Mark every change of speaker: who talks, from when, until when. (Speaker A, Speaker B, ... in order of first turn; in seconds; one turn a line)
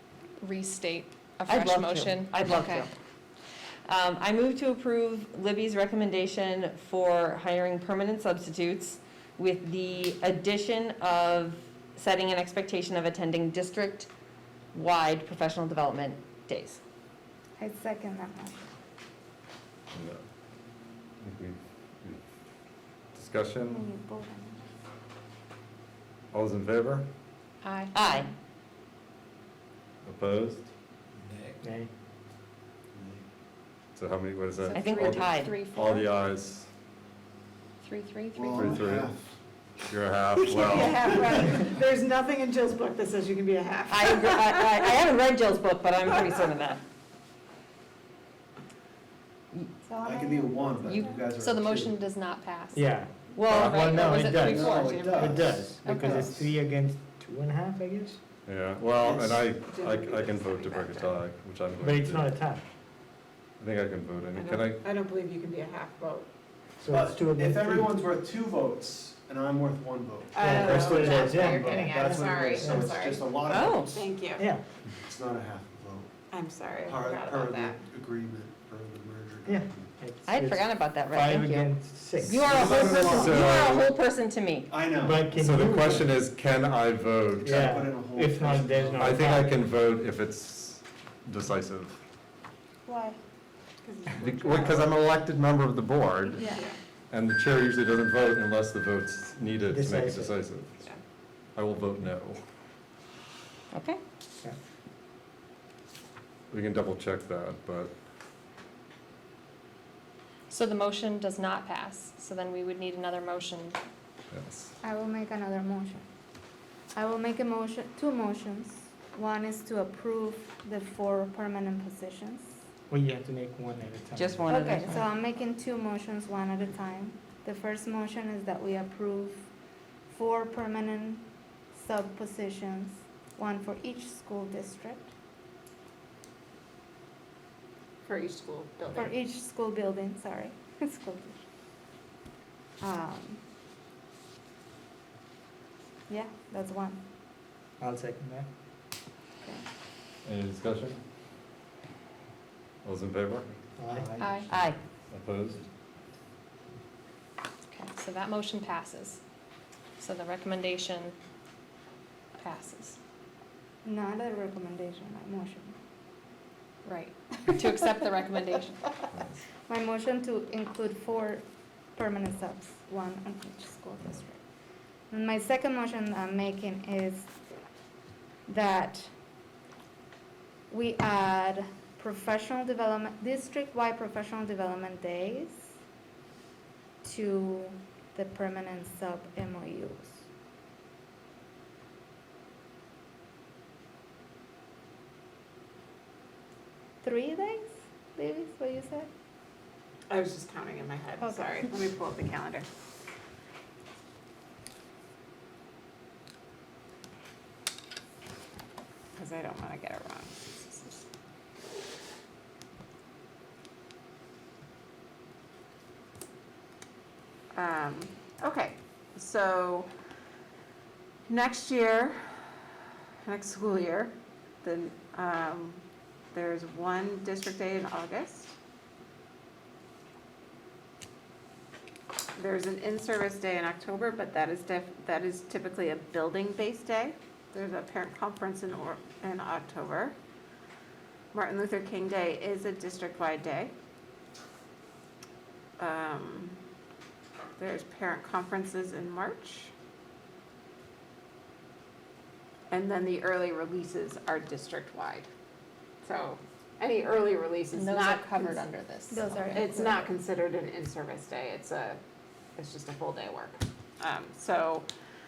Speaker A: 0.4-2.9
Speaker B: 1.5-2.9
Speaker B: 3.9-14.1
Speaker B: 14.7-16.8
Speaker C: 17.6-18.7
Speaker D: 19.9-20.2
Speaker D: 21.2-22.2
Speaker D: 23.1-23.8
Speaker C: 23.7-24.6
Speaker D: 26.3-27.1
Speaker A: 27.6-28.2
Speaker B: 27.9-28.3
Speaker D: 30.1-30.7
Speaker E: 31.3-31.6
Speaker F: 31.6-31.9
Speaker E: 32.9-33.2
Speaker D: 34.0-36.7
Speaker A: 34.6-36.1
Speaker B: 34.7-35.5
Speaker A: 37.8-38.8
Speaker E: 38.3-39.3
Speaker D: 38.5-39.1
Speaker D: 39.8-41.1
Speaker G: 40.5-42.2
Speaker E: 40.7-41.4
Speaker F: 42.2-43.1
Speaker G: 42.8-44.7
Speaker B: 43.9-46.8
Speaker C: 49.9-51.1
Speaker E: 50.0-52.0
Speaker A: 50.9-55.3
Speaker F: 52.7-58.2
Speaker B: 53.4-54.1
Speaker E: 54.3-56.5
Speaker G: 54.6-56.2
Speaker A: 55.9-56.1
Speaker D: 58.5-62.3
Speaker E: 59.0-59.4
Speaker G: 59.6-61.2
Speaker F: 61.8-62.6
Speaker D: 63.6-64.8
Speaker G: 64.3-66.3
Speaker F: 66.8-67.9
Speaker E: 66.9-74.2
Speaker G: 70.3-73.3
Speaker F: 70.4-72.9
Speaker B: 73.5-73.9
Speaker G: 73.9-74.5
Speaker E: 75.0-76.1
Speaker G: 76.3-77.8
Speaker E: 76.8-79.9
Speaker F: 79.5-82.5
Speaker B: 80.3-81.7
Speaker B: 82.2-84.7
Speaker E: 82.4-84.0
Speaker E: 84.7-85.3
Speaker F: 85.0-86.1
Speaker D: 85.3-87.7
Speaker E: 87.3-89.3
Speaker F: 87.4-89.6
Speaker D: 89.0-92.0
Speaker C: 92.9-93.2
Speaker G: 93.8-95.0
Speaker D: 94.2-96.6
Speaker C: 96.3-96.7
Speaker D: 97.1-100.7
Speaker F: 99.7-100.4
Speaker D: 101.6-102.4
Speaker B: 103.7-104.0
Speaker D: 106.5-107.9
Speaker A: 110.5-113.8
Speaker D: 114.3-114.7
Speaker C: 114.8-116.1
Speaker C: 117.0-122.6
Speaker F: 122.9-124.5
Speaker B: 124.2-125.1
Speaker C: 124.5-129.5
Speaker C: 130.1-135.1
Speaker G: 138.1-139.1
Speaker C: 138.9-141.4
Speaker C: 142.8-143.4
Speaker C: 146.1-147.0
Speaker F: 147.8-148.5
Speaker D: 150.2-151.0
Speaker D: 152.8-153.5
Speaker F: 153.8-154.1
Speaker E: 153.9-154.4
Speaker A: 154.2-154.5
Speaker B: 154.5-154.8
Speaker D: 155.1-155.7
Speaker A: 157.7-159.2
Speaker A: 160.0-161.2
Speaker A: 162.4-163.0
Speaker C: 163.8-165.8
Speaker A: 166.8-169.0
Speaker C: 169.7-171.4
Speaker C: 172.0-174.4
Speaker C: 175.1-177.3
Speaker C: 178.5-179.1
Speaker C: 180.7-185.7
Speaker C: 187.0-190.2
Speaker C: 197.0-199.1
Speaker G: 200.1-202.7
Speaker C: 201.2-201.7
Speaker G: 209.2-211.0
Speaker G: 217.6-219.9
Speaker G: 221.3-222.2
Speaker G: 223.2-225.8
Speaker G: 226.3-228.5
Speaker G: 232.3-240.2
Speaker G: 241.3-243.7
Speaker G: 245.8-246.6
Speaker G: 247.6-249.7
Speaker G: 252.7-255.3
Speaker G: 256.0-258.8
Speaker A: 257.7-259.8
Speaker C: 259.1-260.1
Speaker G: 259.5-262.0
Speaker G: 262.6-264.9